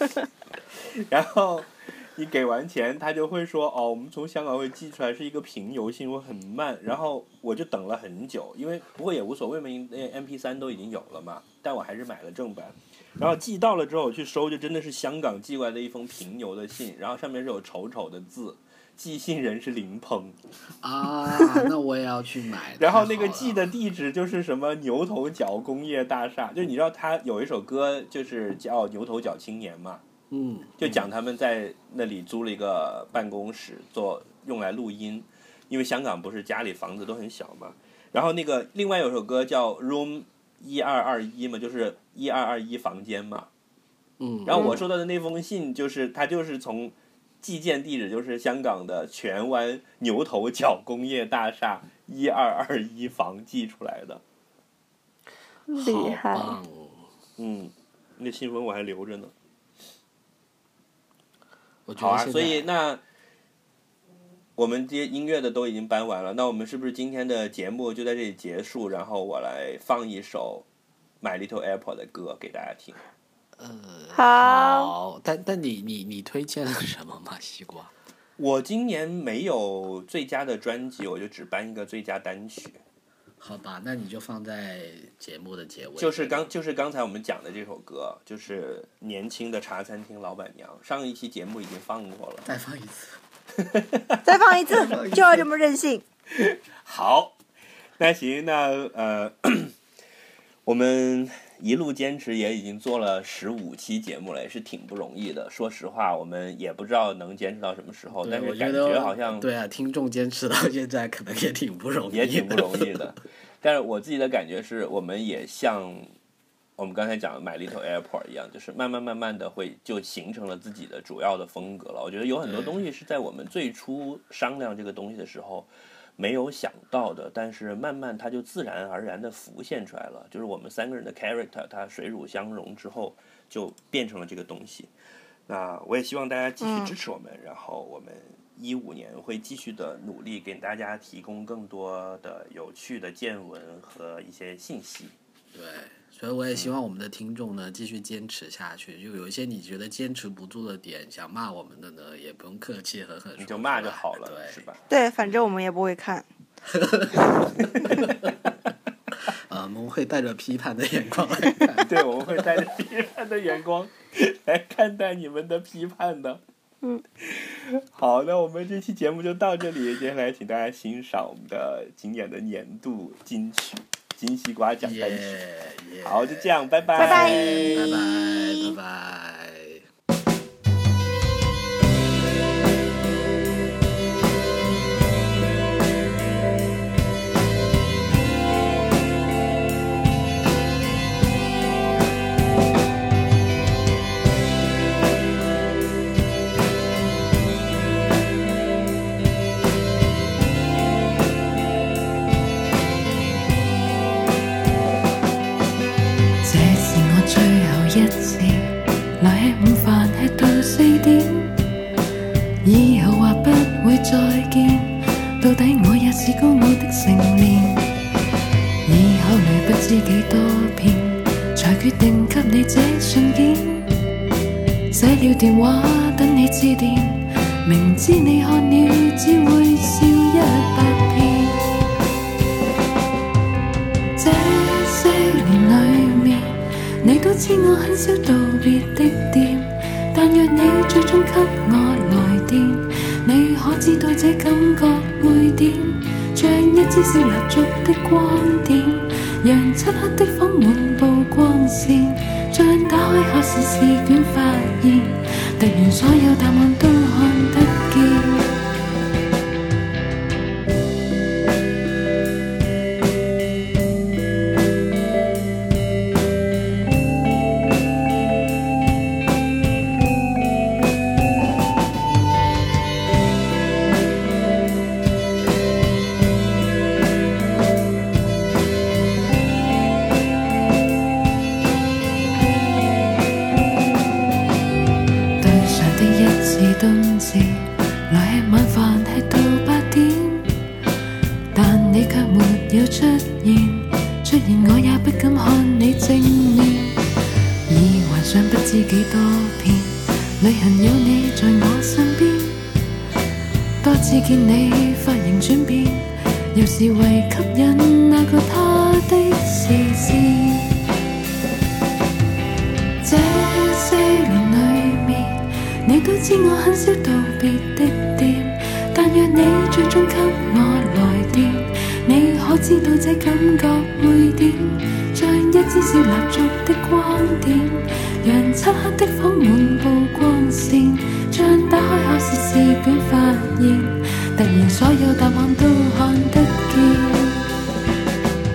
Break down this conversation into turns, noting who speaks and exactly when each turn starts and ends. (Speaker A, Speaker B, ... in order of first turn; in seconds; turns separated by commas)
Speaker A: 0.9-20.4, Speaker B: 20.8-23.6, Speaker A: 22.8-30.0, Speaker B: 30.3-31.1, Speaker A: 30.8-43.5, Speaker B: 44.2-44.9, Speaker A: 44.5-54.2, Speaker C: 55.7-56.6, Speaker B: 55.8-57.1, Speaker A: 57.4-59.3, Speaker B: 61.9-62.7, Speaker A: 62.0-63.0, Speaker A: 64.6-70.7, Speaker A: 71.2-73.0, Speaker B: 73.6-77.9, Speaker C: 74.1-74.9, Speaker A: 78.4-82.8, Speaker B: 83.4-86.5, Speaker A: 86.0-92.5, Speaker B: 92.4-93.2, Speaker A: 93.6-94.2, Speaker C: 94.2-96.0, Speaker B: 94.7-95.5, Speaker A: 96.3-97.3, Speaker A: 98.0-99.7, Speaker A: 100.6-109.5, Speaker B: 108.1-113.1, Speaker A: 112.1-116.1, Speaker A: 116.8-134.9, Speaker B: 122.4-122.8, Speaker A: 135.5-145.1, Speaker C: 136.6-136.9, Speaker B: 145.5-154.7, Speaker A: 153.4-154.8, Speaker C: 154.9-156.3, Speaker B: 156.6-158.3, Speaker A: 157.7-158.1, Speaker B: 159.2-162.5, Speaker A: 161.8-166.4, Speaker A: 167.2-175.4, Speaker B: 174.8-179.8, Speaker A: 176.0-178.0, Speaker C: 177.0-177.8, Speaker D: 206.4-211.6, Speaker D: 212.6-217.9, Speaker D: 218.8-223.9, Speaker D: 224.9-231.7, Speaker D: 234.2-258.5, Speaker D: 285.4-290.5, Speaker D: 291.5-297.1, Speaker D: 297.7-302.6, Speaker D: 303.8-310.8, Speaker D: 313.0-337.4